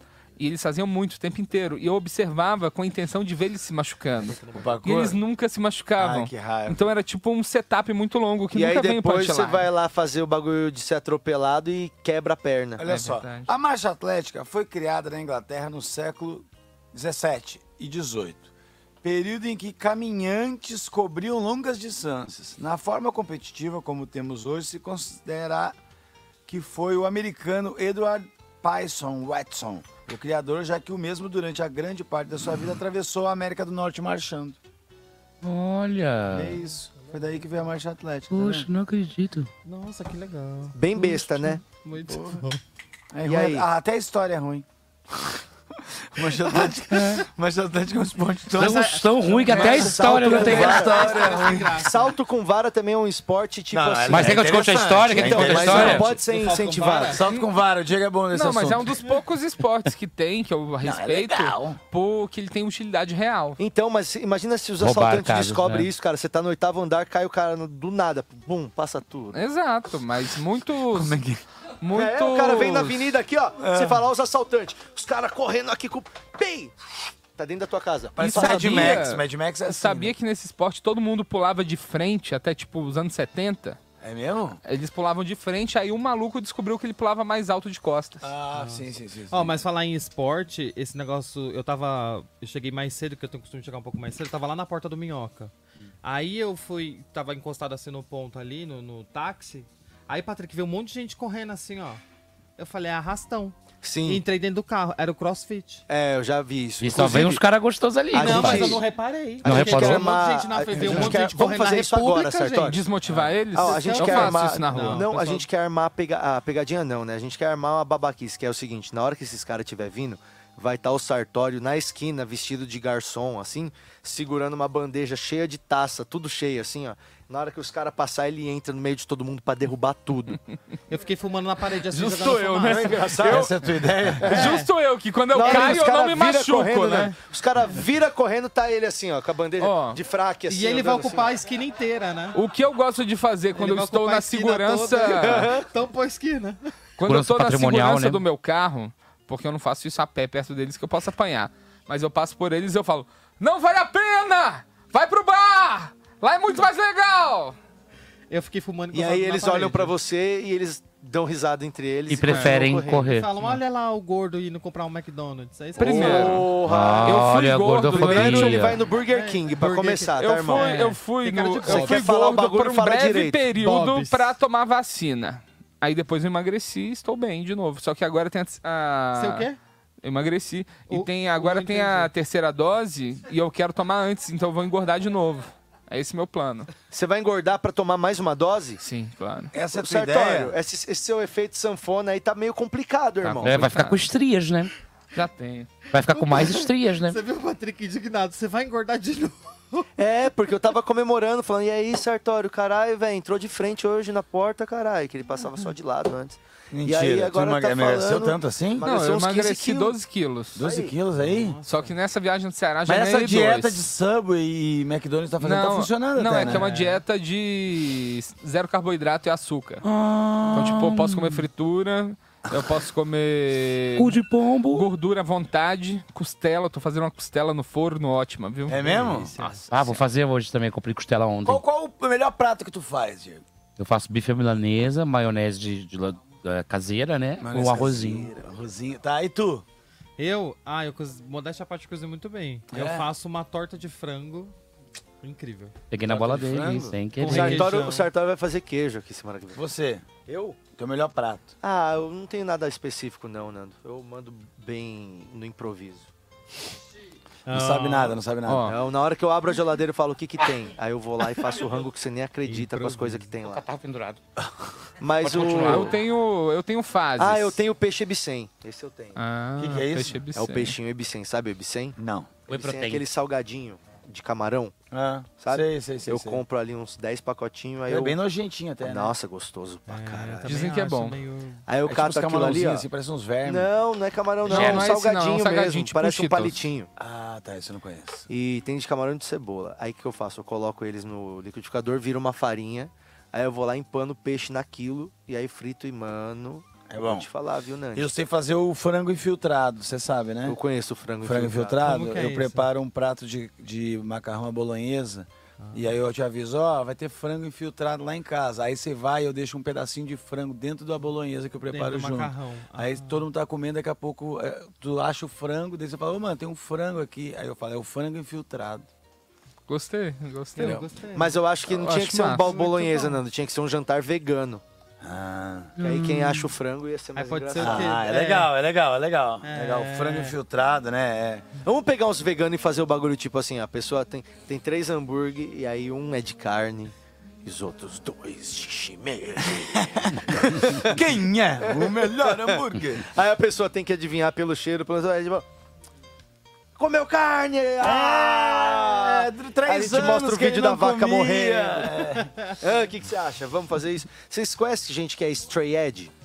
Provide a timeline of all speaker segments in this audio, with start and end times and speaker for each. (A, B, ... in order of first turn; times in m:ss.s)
0:00.4-0:09.7 A
0:04.3-0:04.8 B
0:04.5-0:05.2 C
0:06.0-0:06.8 C
0:08.5-0:12.8 D
0:12.8-0:18.5 C
0:12.8-0:13.5 A
0:19.0-0:25.8 C
0:26.5-0:34.6 C
0:35.4-0:36.6 E
0:36.3-0:38.7 C
0:36.5-0:37.4 B
0:38.3-0:39.5 E
0:39.6-0:42.6 B
0:40.7-0:41.6 D
0:42.1-0:42.4 C
0:43.1-0:44.6 C
0:43.2-0:43.7 D
0:46.1-0:51.8 C
0:46.9-0:47.2 E
0:48.6-0:50.9 E
0:48.6-0:49.8 B
0:49.3-0:57.2 D
0:50.4-0:51.9 B
0:53.7-0:56.2 C
0:54.1-0:56.1 E
0:56.1-0:57.2 B
0:57.1-0:59.0 C
0:58.3-1:03.6 A
1:00.8-1:01.8 C
1:03.6-1:09.4 D
1:04.8-1:05.9 E
1:09.3-1:11.2 A
1:10.9-1:11.4 C
1:11.8-1:13.1 A
1:11.9-1:16.8 D
1:13.6-1:14.0 C
1:17.3-1:19.0 D
1:18.2-1:20.1 C
1:18.2-1:23.8 A
1:24.0-1:24.6 C
1:24.6-1:28.3 A
1:28.2-1:29.6 C
1:28.5-1:35.5 B
1:36.0-1:42.0 B
1:42.6-1:45.8 B
1:43.8-1:44.2 D
1:45.9-1:47.4 D
1:46.8-1:48.8 E
1:48.1-1:48.8 D
1:48.2-1:52.8 B
1:49.4-1:52.9 D
1:49.4-1:50.1 E
1:50.9-1:51.1 A
1:52.6-1:55.1 A
1:53.5-2:10.4 D
1:53.5-1:55.5 B
2:10.9-2:13.0 B
2:11.9-2:14.4 C
2:12.6-2:13.6 D
2:13.2-2:13.5 A
2:14.2-2:14.6 D
2:14.2-2:17.2 A
2:14.3-2:14.7 B
2:15.3-2:21.4 D
2:15.4-2:15.8 B
2:19.6-2:20.0 A
2:20.5-2:22.4 B
2:22.4-2:25.5 A
2:23.6-2:26.7 B
2:25.1-2:25.7 D
2:27.0-2:37.6 A
2:27.0-2:28.2 E
2:38.3-2:39.9 B
2:38.9-2:43.1 D
2:42.1-2:43.3 E
2:42.3-2:42.7 A
2:43.1-2:46.4 B
2:45.8-2:47.4 D
2:45.8-2:46.5 A
2:46.6-2:48.8 E
2:47.0-2:48.8 A
2:47.9-2:50.7 D
2:48.9-2:52.1 B
2:50.2-2:59.5 A
2:51.6-2:53.5 D
2:53.5-2:54.3 B
2:59.2-2:59.6 B
3:00.0-3:06.7 A
3:00.9-3:02.1 B
3:06.9-3:08.8 D
3:08.8-3:09.5 A
3:09.5-3:10.6 C
3:09.7-3:13.7 D
3:13.2-3:14.0 A
3:13.4-3:14.7 E
3:15.1-3:15.8 A
3:15.9-3:17.2 E
3:16.1-3:19.9 B
3:20.0-3:30.0 D
3:26.7-3:28.9 C
3:28.8-3:30.6 A
3:30.6-3:31.6 C
3:30.6-3:31.0 D
3:31.2-3:31.9 B
3:31.6-3:33.8 A
3:32.9-3:36.7 C
3:35.4-3:39.8 A
3:36.4-3:37.0 B
3:39.8-3:41.5 E
3:40.5-3:44.2 A
3:44.0-3:44.9 E
3:44.7-3:50.0 A
3:48.7-3:49.4 C
3:49.1-3:49.5 B
3:49.7-3:51.6 E
3:51.4-3:53.4 C
3:53.8-3:58.3 E
3:57.4-3:59.6 C
4:00.2-4:04.5 B
4:02.7-4:03.1 C
4:05.2-4:05.8 B
4:05.9-4:07.7 E
4:06.0-4:07.7 C
4:07.2-4:08.1 B
4:07.3-4:09.6 D
4:09.6-4:11.5 C
4:10.2-4:10.6 D
4:11.6-4:16.1 D
4:17.5-4:18.2 B
4:17.5-4:18.7 C
4:18.4-4:18.8 A
4:18.7-4:23.6 D
4:22.4-4:23.3 B
4:23.4-4:24.2 E
4:25.0-4:25.9 D
4:25.2-4:25.9 E
4:25.6-4:27.6 A
4:27.2-4:29.2 D
4:29.2-4:30.8 A
4:29.6-4:30.2 C
4:30.3-4:32.0 D
4:32.0-4:32.4 C
4:32.5-4:33.1 E
4:32.5-4:34.8 D
4:34.9-4:36.4 C
4:35.3-4:38.2 D
4:37.9-4:39.1 C
4:38.8-4:40.5 D
4:39.9-4:41.6 B
4:40.4-4:41.2 A
4:41.7-4:42.9 D
4:41.8-4:43.7 C
4:43.4-4:46.9 D
4:44.5-4:46.6 A
4:44.5-4:44.9 E
4:47.0-4:48.3 C
4:48.3-4:58.1 D
4:56.9-4:57.3 C
4:58.0-5:00.6 C
5:00.4-5:01.9 D
5:01.2-5:18.9 C
5:01.8-5:02.7 B
5:05.6-5:05.9 B
5:11.7-5:13.2 B
5:19.7-5:20.8 A
5:20.6-5:21.4 B
5:20.6-5:20.8 C
5:21.1-5:24.6 D
5:21.7-5:22.6 A
5:22.4-5:23.2 B
5:25.0-5:25.9 C
5:25.8-5:28.1 D
5:25.8-5:26.5 E
5:27.2-5:28.5 B
5:27.6-5:31.5 C
5:29.4-5:30.4 B
5:31.6-5:41.0 D
5:39.4-5:40.2 C
5:40.8-5:43.1 C
5:41.6-5:45.4 D
5:46.8-5:52.1 D
5:47.8-5:52.3 C
5:52.6-5:56.1 D